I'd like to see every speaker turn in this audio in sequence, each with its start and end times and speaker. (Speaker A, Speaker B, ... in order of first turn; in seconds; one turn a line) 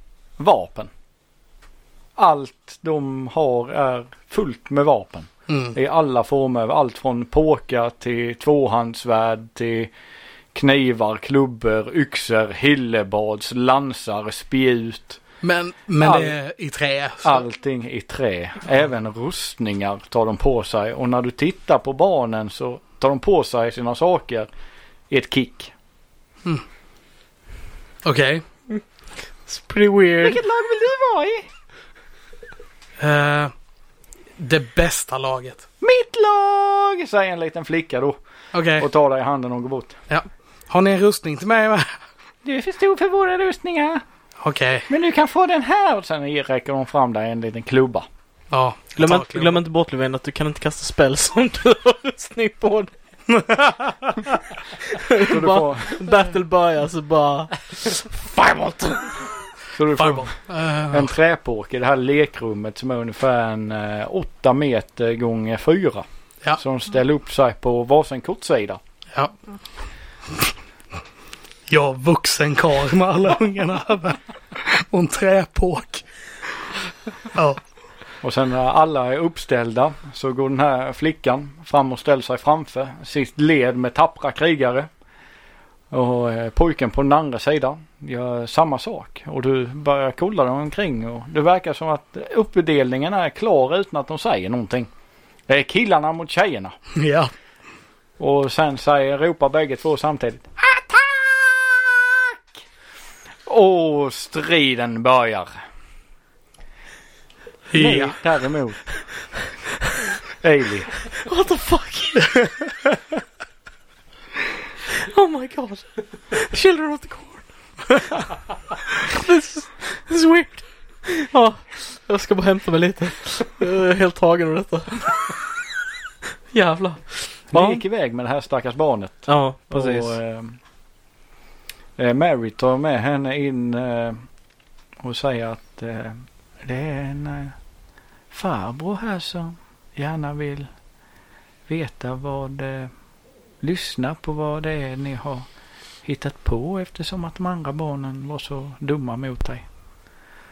Speaker A: 0.4-0.9
Speaker A: 2.2-9.9
Speaker B: 5.5-5.7
Speaker A: 10.5-15.2
Speaker B: 15.4-17.4
Speaker A: 16.0-16.4
Speaker A: 17.2-24.5
Speaker A: 25.1-25.7
Speaker B: 28.0-28.4
Speaker C: 29.4-30.4
Speaker A: 30.2-31.5
Speaker B: 33.0-33.5
Speaker B: 34.4-35.6
Speaker A: 35.8-38.2
Speaker B: 38.5-38.9
Speaker A: 38.8-39.9
Speaker B: 40.1-42.0
Speaker A: 42.4-44.0
Speaker B: 44.4-44.9
Speaker A: 44.9-48.0
Speaker B: 48.5-49.6
Speaker C: 49.0-52.9
Speaker B: 53.3-54.0
Speaker C: 54.9-59.4
Speaker A: 55.2-56.0
Speaker A: 59.7-60.3
Speaker B: 60.0-61.1
Speaker A: 60.9-66.0
Speaker A: 66.6-68.8
Speaker B: 71.7-76.0
Speaker B: 77.3-77.6
Speaker A: 78.2-84.9
Speaker A: 85.9-94.9
Speaker A: 95.5-96.7
Speaker B: 96.9-97.3
Speaker A: 98.2-102.6
Speaker A: 103.5-105.5
Speaker B: 107.7-108.2
Speaker A: 107.7-108.8
Speaker A: 110.3-111.0
Speaker C: 111.2-112.5
Speaker C: 114.9-118.2
Speaker C: 119.1-125.4
Speaker C: 126.5-127.8
Speaker A: 127.5-130.6
Speaker C: 129.2-130.2
Speaker A: 132.0-134.2
Speaker A: 135.0-137.6
Speaker A: 138.3-140.7
Speaker A: 141.7-142.9
Speaker A: 143.6-145.5
Speaker A: 146.0-149.6